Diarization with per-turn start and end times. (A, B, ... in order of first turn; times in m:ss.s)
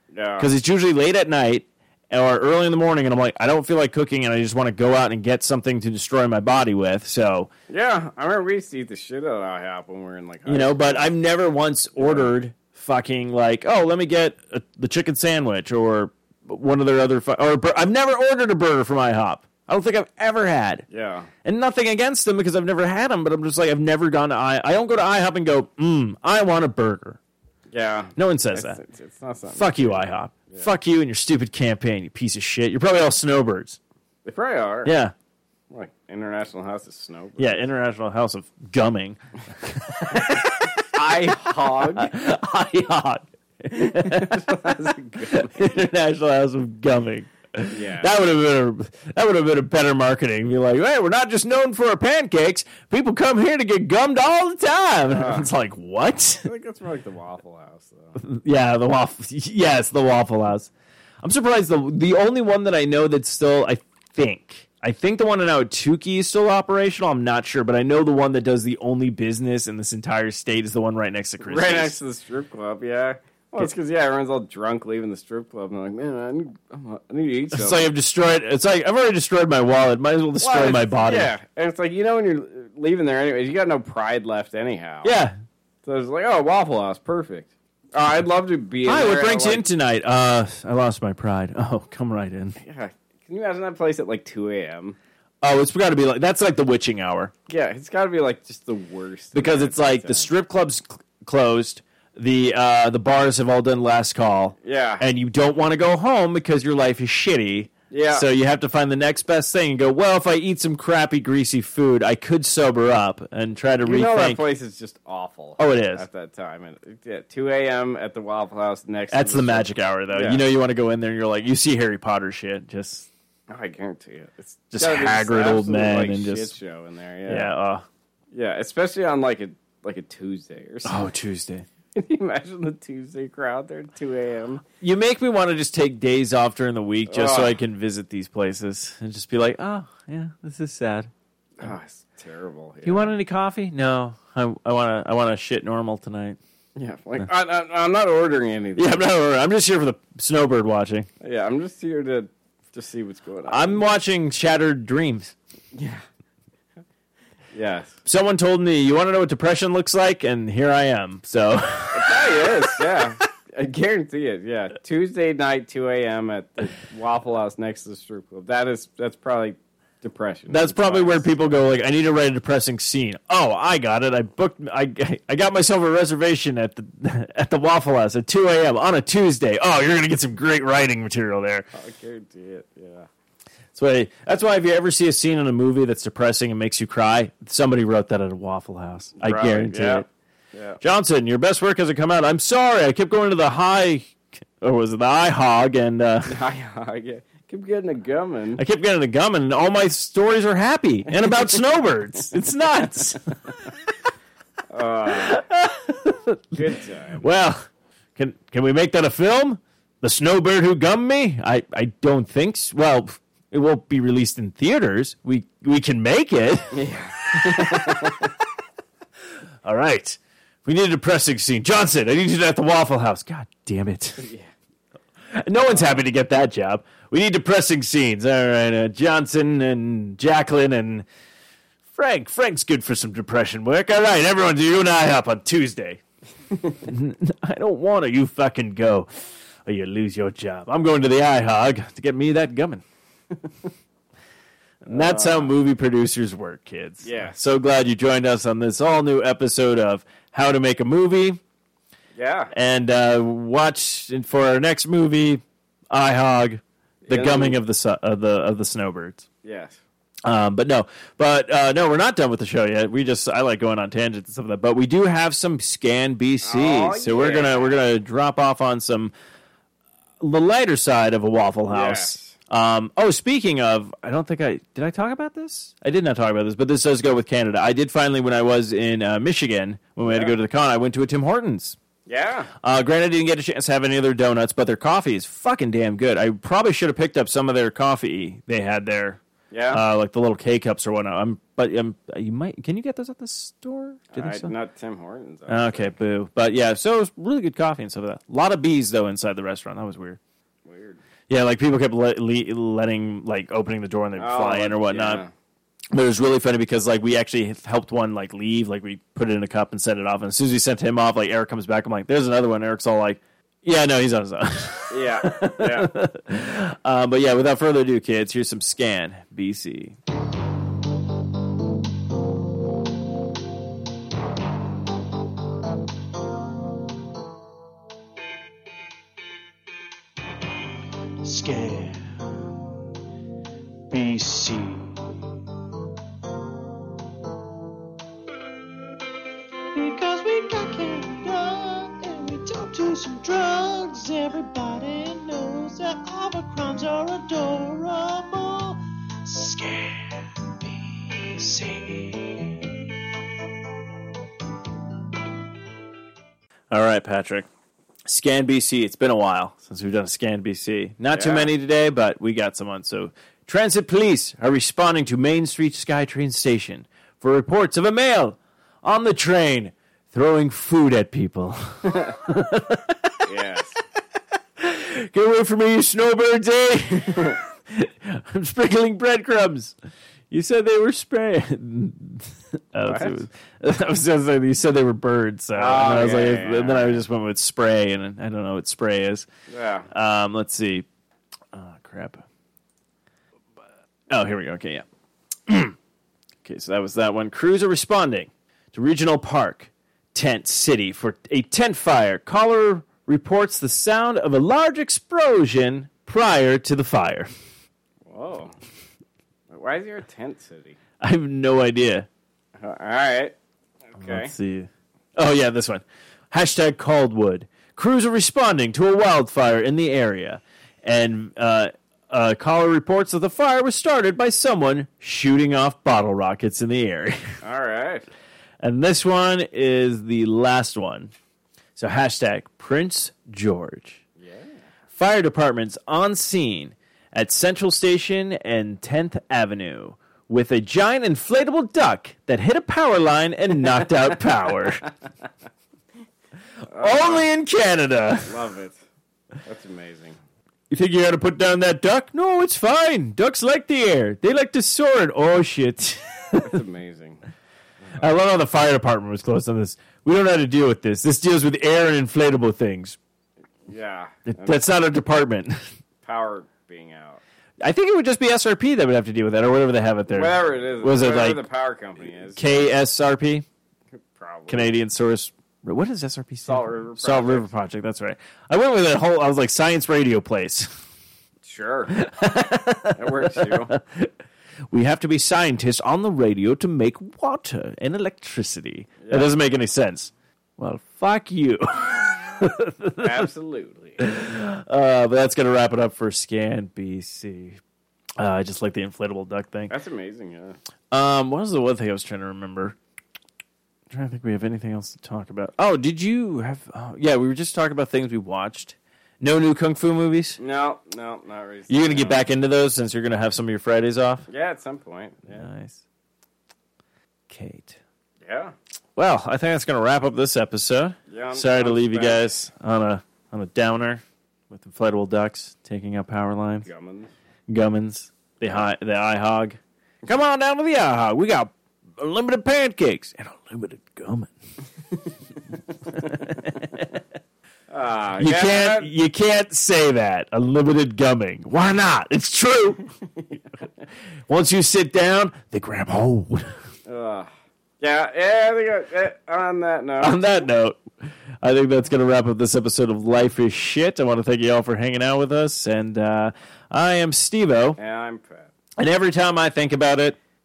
0:00.1-0:00.5 A
0:00.4-0:07.5 B
0:07.7-0:11.1 A
0:10.4-0:20.8 B
0:12.0-0:12.3 A
0:20.9-0:21.3 A
0:21.4-0:27.2 B
0:27.7-0:30.7 A
0:28.2-0:28.8 B
0:29.5-0:33.8 B
0:34.2-0:34.9 A
0:34.8-0:35.1 B
0:35.7-0:37.7 A
0:37.4-0:56.5 B
0:40.2-0:42.1 A
0:43.7-0:45.5 A
0:47.7-0:48.1 A
0:55.1-0:55.5 A
0:56.4-0:58.2 A
0:58.2-1:00.7 B
1:01.2-1:12.0 B
1:11.4-1:17.9 A
1:17.5-1:21.3 B
1:20.4-1:25.1 A
1:25.0-1:25.3 B
1:25.8-1:29.7 A
1:28.8-1:32.6 B
1:32.6-1:35.0 A
1:35.4-1:37.3 B
1:37.5-1:40.3 A
1:39.3-1:54.4 B
1:44.6-1:45.0 A
1:47.9-1:48.3 A
1:53.8-2:00.4 A
1:55.6-1:56.0 B
1:59.1-2:03.1 B
2:03.5-2:07.5 A
2:04.7-2:06.5 B
2:07.3-2:07.8 B
2:08.3-2:11.0 A
2:10.8-2:11.7 B
2:11.9-2:14.6 A
2:14.8-2:21.1 B
2:17.1-2:17.6 A
2:21.6-2:23.2 A
2:22.8-2:26.4 B
2:26.8-2:29.0 A
2:28.8-2:31.1 B
2:31.2-2:33.8 A
2:33.5-2:35.3 B
2:35.7-2:36.0 A
2:37.5-2:38.0 A
2:38.0-2:42.8 B
2:41.9-2:51.5 A
2:50.5-3:01.7 B
3:01.7-3:03.1 A
3:03.7-3:10.1 B
3:09.2-3:10.8 A
3:10.8-3:16.4 B
3:16.2-3:18.6 A
3:18.6-3:23.3 B
3:24.7-3:25.4 A
3:25.1-3:26.6 B
3:26.5-3:27.2 A
3:27.2-3:38.4 B
3:36.7-3:38.3 A
3:39.6-3:44.3 B
3:44.2-3:44.5 A
3:45.3-3:51.0 B
3:45.7-3:46.0 A
3:51.9-3:56.0 B
3:56.5-3:56.8 A
3:56.8-4:02.8 B
4:04.8-4:05.5 A
4:04.8-4:11.4 B
4:07.0-4:07.4 A
4:12.2-4:12.5 A
4:12.5-4:19.3 B
4:17.0-4:17.6 A
4:19.4-4:19.8 A
4:20.2-4:29.1 B
4:26.4-4:27.8 A
4:30.2-4:41.8 B
4:31.7-4:32.3 A
4:40.0-4:40.3 A
4:42.1-4:42.5 A
4:42.6-4:54.5 B
4:49.5-4:49.8 A
4:54.1-4:55.9 A
4:55.5-5:00.2 B
5:00.6-5:01.0 A
5:01.3-5:05.2 B
5:04.1-5:05.3 A
5:05.9-5:20.0 B
5:14.9-5:15.9 A
5:31.2-5:32.2 B
5:33.9-5:35.2 B
5:39.8-5:49.5 C
5:44.4-5:45.0 B
5:49.4-5:52.5 B
5:56.7-5:57.5 B
5:58.0-6:13.2 B
6:01.1-6:01.5 A
6:13.2-6:13.8 A
6:14.6-6:19.8 B
6:20.3-6:29.3 B
6:22.8-6:23.2 A
6:25.5-6:27.0 A
6:29.5-6:29.9 A
6:29.9-6:30.8 B
6:31.5-6:32.2 B
6:34.1-6:34.8 B
6:35.5-6:35.7 B
6:36.4-6:47.3 B
6:48.0-6:48.5 A
6:49.5-6:50.8 A
6:51.0-6:52.1 B
6:52.6-6:53.3 A
6:53.9-6:54.3 A
6:54.0-7:07.4 B
7:07.4-7:08.1 A
7:08.6-7:11.1 B
7:11.8-7:14.0 B
7:14.2-7:14.6 A
7:14.9-7:24.9 B
7:26.7-7:27.3 A
7:26.7-7:28.3 B
7:28.2-7:28.8 A
7:29.4-7:30.2 A
7:30.7-7:36.6 B
7:36.4-7:37.2 A
7:38.0-7:43.0 B
7:43.7-7:44.6 A
7:44.3-7:45.6 B
7:46.0-7:47.2 A
7:47.6-7:51.4 B
7:50.1-7:52.7 A
7:52.3-7:53.4 B
7:54.0-7:54.8 A
7:54.5-8:00.7 B
7:56.4-7:57.5 A
8:01.4-8:02.0 A
8:01.9-8:04.1 B
8:03.0-8:03.7 A
8:04.7-8:13.3 B
8:09.0-8:09.3 A
8:13.0-8:14.0 A
8:14.0-8:17.6 B
8:18.2-8:19.7 B
8:19.7-8:20.6 A
8:20.9-8:22.8 B
8:23.9-8:30.4 B
8:30.4-8:32.2 A
8:31.7-8:34.2 B
8:34.3-8:35.5 A
8:35.3-8:35.8 B
8:37.3-8:37.8 B
8:38.2-8:38.5 A
8:39.0-8:46.6 B
8:41.1-8:42.3 A
8:46.6-8:47.1 A
8:47.5-8:54.3 B
8:55.9-8:56.8 B
8:57.7-8:58.9 A
8:58.2-9:02.8 B
9:04.3-9:06.5 B
9:06.9-9:07.3 A
9:07.8-9:10.2 A
9:10.0-9:10.8 B
9:11.4-9:17.8 B
9:17.8-9:18.5 A
9:18.8-9:20.2 B